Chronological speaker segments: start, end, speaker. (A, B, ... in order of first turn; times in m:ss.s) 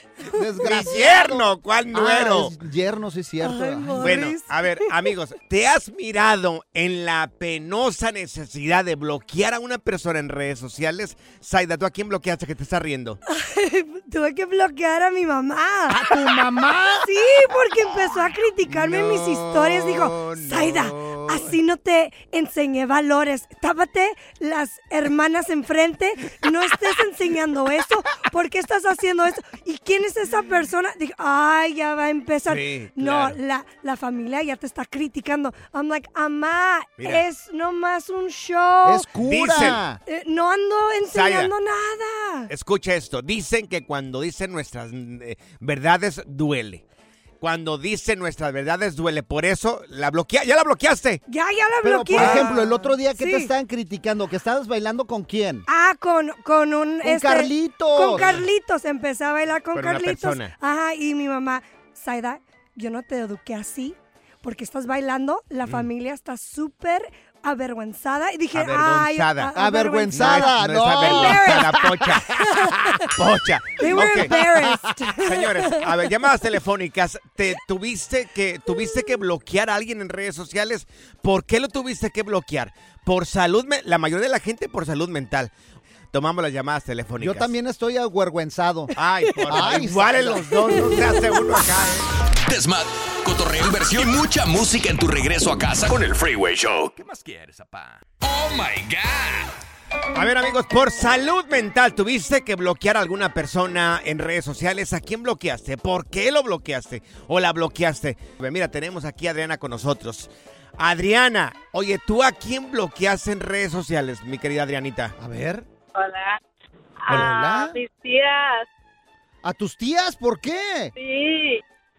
0:00.3-0:04.3 A
0:00.6-0:02.6 B
0:03.4-0:04.9 C
0:04.0-0:13.2 B
0:13.3-0:16.3 C
0:15.9-0:17.1 A
0:17.0-0:39.1 C
0:18.7-0:21.6 B
0:32.4-0:33.4 B
0:37.0-0:37.2 B
0:38.8-0:40.0 A
0:39.2-0:39.8 B
0:40.0-0:42.5 C
0:41.1-0:41.5 B
0:42.5-0:46.8 B
0:47.4-0:51.2 B
0:51.3-0:53.5 C
0:51.8-0:55.6 A
0:52.1-0:52.6 B
0:55.7-1:11.7 C
0:57.0-0:58.4 A
0:58.1-0:58.4 B
0:59.7-1:00.5 B
1:08.5-1:09.5 B
1:09.5-1:12.3 A
1:10.1-1:12.4 B
1:12.4-1:13.1 C
1:13.1-1:14.3 B
1:13.8-1:15.9 C
1:14.0-1:15.0 A
1:15.2-1:25.5 B
1:26.1-1:27.5 B
1:27.2-1:28.9 A
1:28.9-1:32.1 B
1:29.5-1:31.1 A
1:32.4-1:39.6 D
1:40.1-1:55.1 B
1:55.2-1:55.6 A
1:55.9-1:56.4 E
1:57.0-1:58.6 E
1:57.1-1:57.8 A
1:59.4-2:00.9 A
2:00.9-2:01.6 E